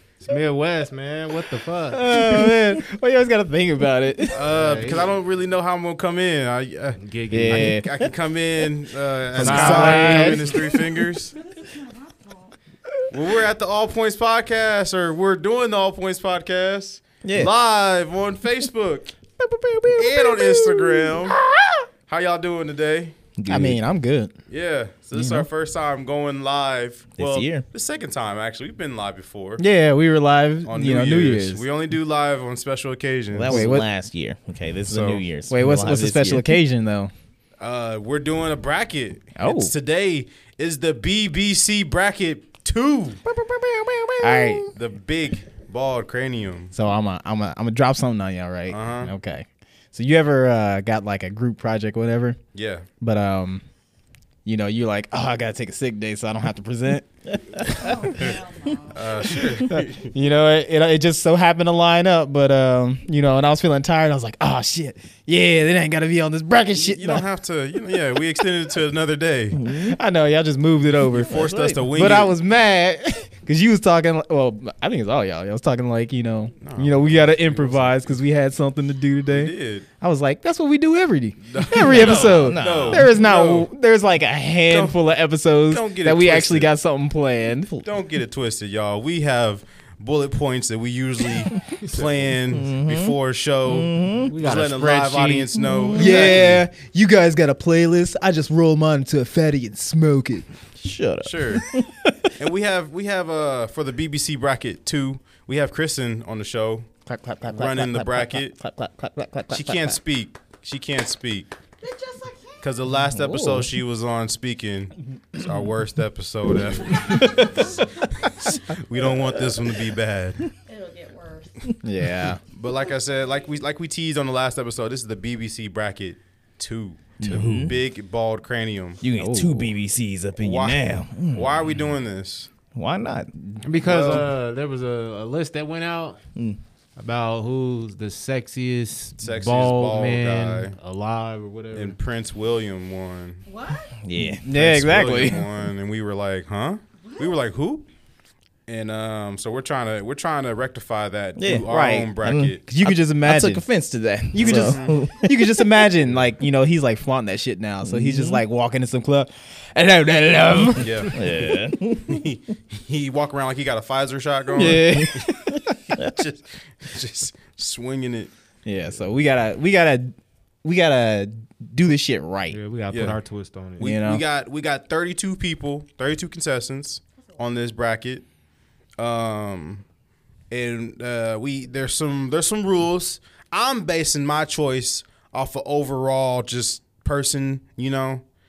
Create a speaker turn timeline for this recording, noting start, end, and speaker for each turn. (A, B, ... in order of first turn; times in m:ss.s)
0:00.2-0:02.0 A
0:01.9-0:04.5 B
0:04.3-0:11.3 C
0:04.5-0:05.2 A
0:07.0-0:07.8 A
0:07.3-0:07.9 B
0:09.3-0:10.5 B
0:09.3-0:10.6 A
0:09.4-0:10.2 D
0:11.3-0:12.5 E
0:13.1-0:19.1 C
0:17.2-0:17.5 D
0:19.4-0:21.8 B
0:19.9-0:21.4 C
0:22.1-0:23.2 C
0:23.4-0:23.8 D
0:23.5-0:24.3 B
0:24.5-0:29.6 C
0:25.1-0:25.5 B
0:27.2-0:27.6 D
0:29.6-0:31.6 B
0:30.6-0:33.7 C
0:33.3-0:36.5 D
0:33.4-0:33.8 B
0:34.9-0:35.2 C
0:35.5-0:37.1 B
0:37.6-0:43.2 C
0:39.4-0:39.7 B
0:43.2-0:44.7 B
0:44.7-0:46.7 C
0:46.7-0:52.4 B
0:48.7-0:49.1 C
0:52.5-0:52.8 C
0:53.0-0:53.6 B
0:54.4-0:57.1 B
0:57.6-0:59.4 E
0:57.7-0:57.9 B
0:58.9-1:00.1 C
0:59.6-1:07.2 B
1:06.7-1:09.6 C
1:09.5-1:10.0 D
1:09.7-1:27.7 B
1:11.1-1:12.4 C
1:11.2-1:11.9 D
1:16.6-1:18.2 C
1:19.3-1:19.8 C
1:21.5-1:23.7 C
1:21.8-1:23.1 D
1:24.7-1:25.0 C
1:25.7-1:26.7 C
1:27.8-1:36.6 C
1:31.8-1:32.2 A
1:32.5-1:34.4 D
1:34.3-1:35.5 A
1:35.7-1:36.4 D
1:35.9-1:40.4 B
1:40.8-1:41.8 D
1:41.2-1:41.7 C
1:41.8-1:42.3 B
1:42.4-1:46.9 C
1:47.0-1:48.5 B
1:47.5-1:48.5 C
1:48.6-1:50.0 D
1:49.5-1:51.5 C
1:51.8-1:52.8 E
1:52.6-1:57.7 C
1:53.1-1:53.7 D
1:57.1-1:57.5 D
1:57.2-1:57.8 E
1:58.4-2:00.5 C
2:00.6-2:01.7 E
2:01.8-2:02.4 B
2:02.5-2:09.0 C
2:07.2-2:07.8 D
2:09.0-2:11.8 D
2:09.2-2:09.7 B
2:10.4-2:12.5 C
2:12.7-2:13.3 D
2:13.6-2:16.2 A
2:13.8-2:14.3 C
2:17.0-2:22.0 A
2:19.2-2:20.7 C
2:21.7-2:23.4 C
2:23.4-2:23.9 E
2:24.0-2:24.4 D
2:24.4-2:25.5 B
2:24.5-2:27.8 C
2:27.0-2:27.4 E
2:28.7-2:32.6 C
2:31.4-2:31.7 D
2:31.6-2:32.1 B
2:32.2-2:35.8 D
2:32.7-2:33.6 B
2:34.3-2:41.1 B
2:34.4-2:35.0 C
2:37.8-2:38.4 D
2:40.8-2:41.2 C
2:41.1-2:42.2 D
2:42.0-2:48.3 C
2:44.5-2:45.6 B
2:45.0-2:45.2 D
2:48.6-2:50.1 B
2:50.6-2:52.6 B
2:52.5-2:53.8 A
2:52.9-2:53.2 C
2:53.8-2:58.2 C
2:53.8-2:54.2 B
2:59.0-2:59.8 C
3:00.5-3:08.2 C